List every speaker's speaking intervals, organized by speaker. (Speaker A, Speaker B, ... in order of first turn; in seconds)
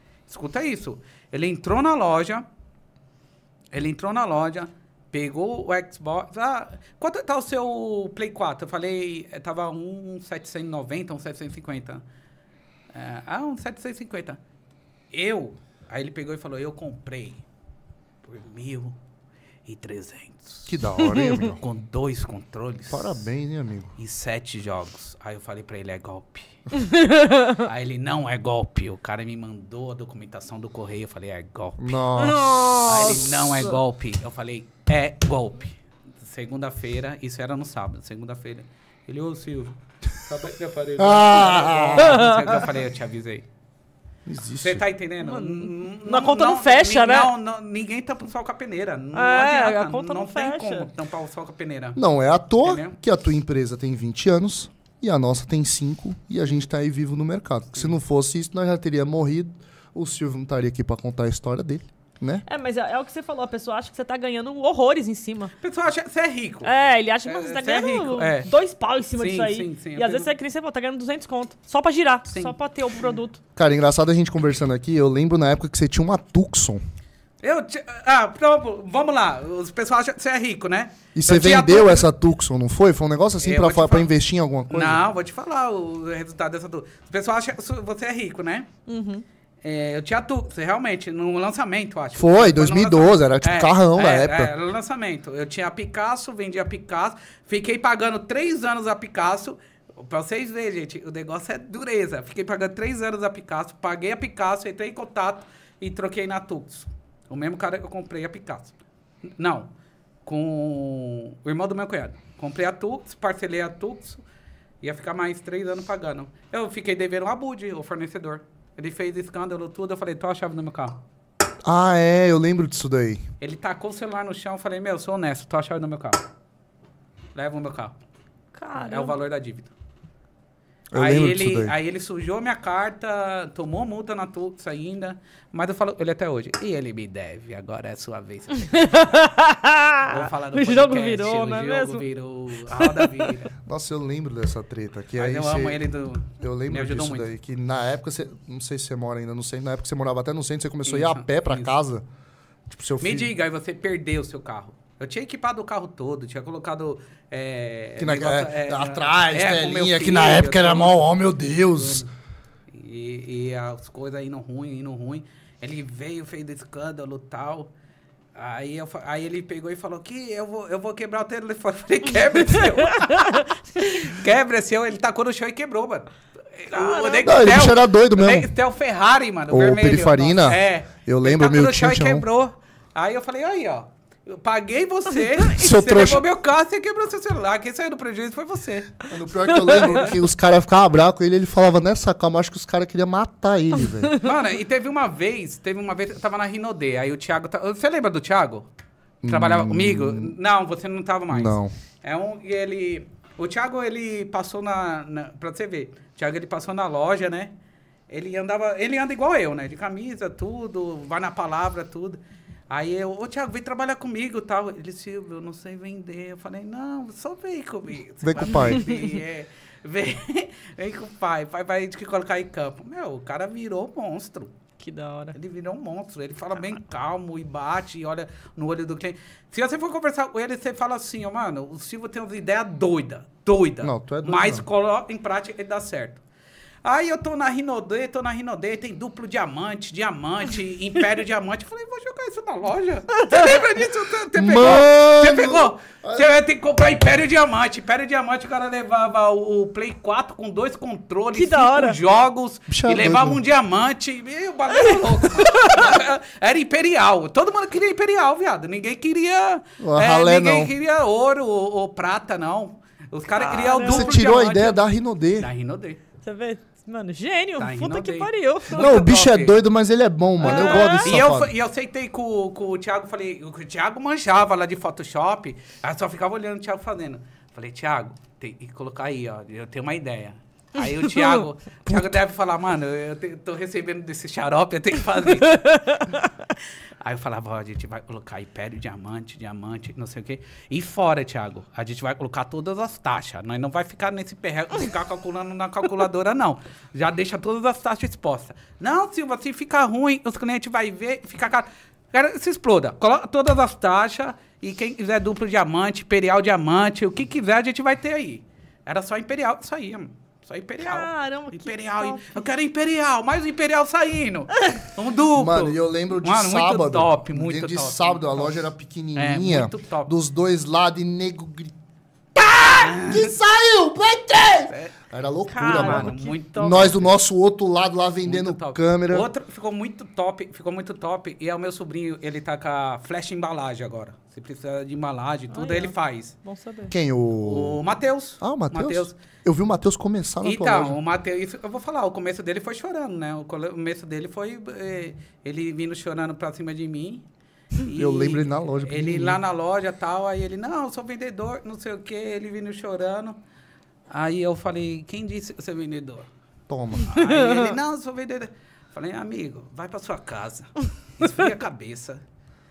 Speaker A: 0.3-2.5, 3.7-12.0, 12.9-14.4, 15.1-17.4, 18.2-19.0, 19.7-20.8, 21.4-23.2, 24.0-26.6, 27.6-31.9, 32.8-43.5, 44.6-52.0, 52.6-53.0, 65.6-66.7, 67.2-68.5, 69.2-70.3, 72.3-73.1, 77.4-82.1, 83.4-84.1, 84.7-88.7, 89.6-108.8, 109.4-109.7, 110.3-114.2, 114.8-121.0, 123.4-126.2, 127.3-128.0, 128.8-129.7, 131.0-139.1, 140.0-143.5, 145.2-147.3, 150.9-151.7, 153.0-161.1, 161.8-162.1, 162.7-167.7, 168.3-190.2, 194.2-198.7, 199.3-207.5, 208.1-212.2, 212.7-224.5, 225.3-236.2, 236.8-264.8, 265.4-266.0, 267.6-269.6, 270.4-286.0, 287.0-320.1, 322.7-323.4, 325.5-327.1, 328.2-336.4, 337.4-339.2, 340.4-353.4, 354.1-356.3, 357.1-362.2
Speaker B: 20.7-21.6, 22.9-23.9, 31.8-33.8, 41.0-42.5, 44.3-44.8, 52.0-62.4, 73.6-76.8, 81.1-85.0, 92.2-94.5, 121.6-123.2, 130.9-131.8, 143.7-152.1, 152.7-153.3, 158.0-162.1, 177.2-178.5, 179.5-182.3, 185.4-186.2, 189.1-194.2, 199.2-200.3, 201.3-201.7, 218.2-218.9, 233.8-234.7, 244.3-246.3, 252.7-253.4, 259.8-260.7, 263.8-265.5, 268.7-271.5, 315.4-321.7, 322.4-329.3, 336.9-337.8, 338.4-341.0, 347.9-349.4, 356.7-357.1
Speaker C: 21.0-21.5, 26.7-27.6, 32.2-33.1, 42.0-42.6, 45.2-47.3, 49.1-50.9, 62.5-65.5, 66.6-73.4, 88.9-89.2, 128.6-129.2, 138.6-142.1, 142.7-143.3, 172.6-173.4, 176.7-177.6, 189.5-189.9, 224.8-225.4, 243.1-243.6, 251.3-252.0, 255.4-255.8, 263.4-264.2, 266.2-269.1, 270.4-271.2, 285.5-286.3, 310.8-312.5, 314.6-314.8, 325.5-327.0, 335.5-336.9, 357.1-357.7